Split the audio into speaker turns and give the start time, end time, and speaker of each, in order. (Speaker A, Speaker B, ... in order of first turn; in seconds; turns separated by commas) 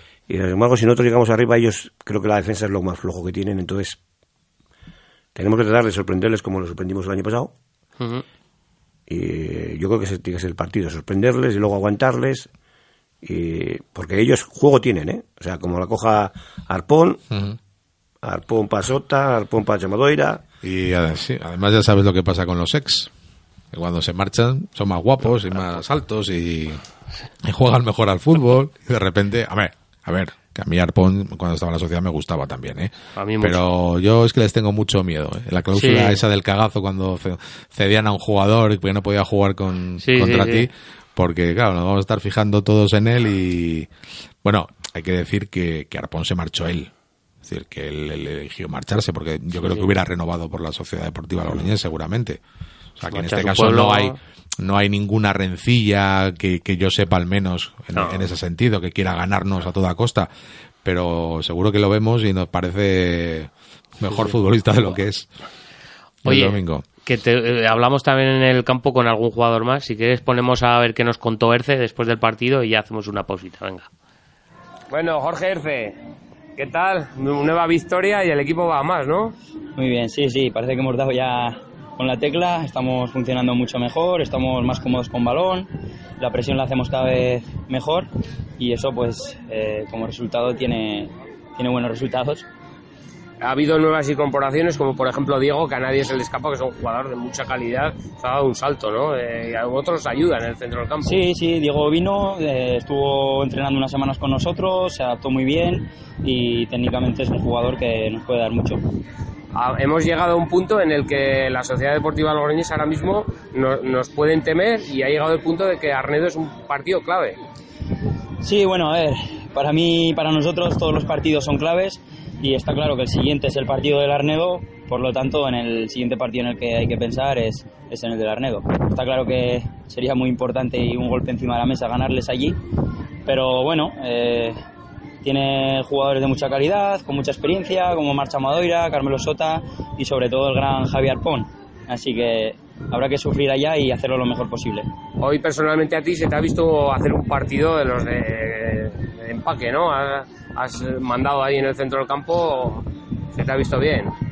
Speaker A: 0.3-4.0, Speaker A: 5.3-7.5, Speaker A: 9.1-12.5, Speaker A: 13.2-17.2, Speaker B: 17.3-17.6, Speaker A: 18.2-20.4, Speaker B: 20.6-23.1, Speaker B: 23.7-26.8, Speaker B: 27.4-43.9, Speaker C: 33.1-33.6, Speaker C: 35.7-36.2, Speaker C: 40.0-40.6, Speaker B: 44.4-46.9, Speaker B: 47.4-52.4, Speaker C: 49.6-49.9, Speaker B: 53.0-60.3, Speaker C: 53.1-54.2, Speaker C: 57.9-58.3, Speaker B: 60.8-65.3, Speaker C: 64.0-64.4, Speaker B: 66.2-66.8, Speaker C: 66.2-73.9, Speaker D: 74.9-76.0, Speaker D: 76.6-79.3, Speaker E: 79.8-85.7, Speaker E: 86.2-88.1, Speaker E: 88.6-92.5, Speaker D: 93.4-101.3, Speaker E: 101.0-108.8, Speaker D: 109.5-117.4, Speaker E: 118.4-132.6, Speaker E: 133.2-134.6, Speaker E: 135.2-144.9, Speaker D: 145.2-154.1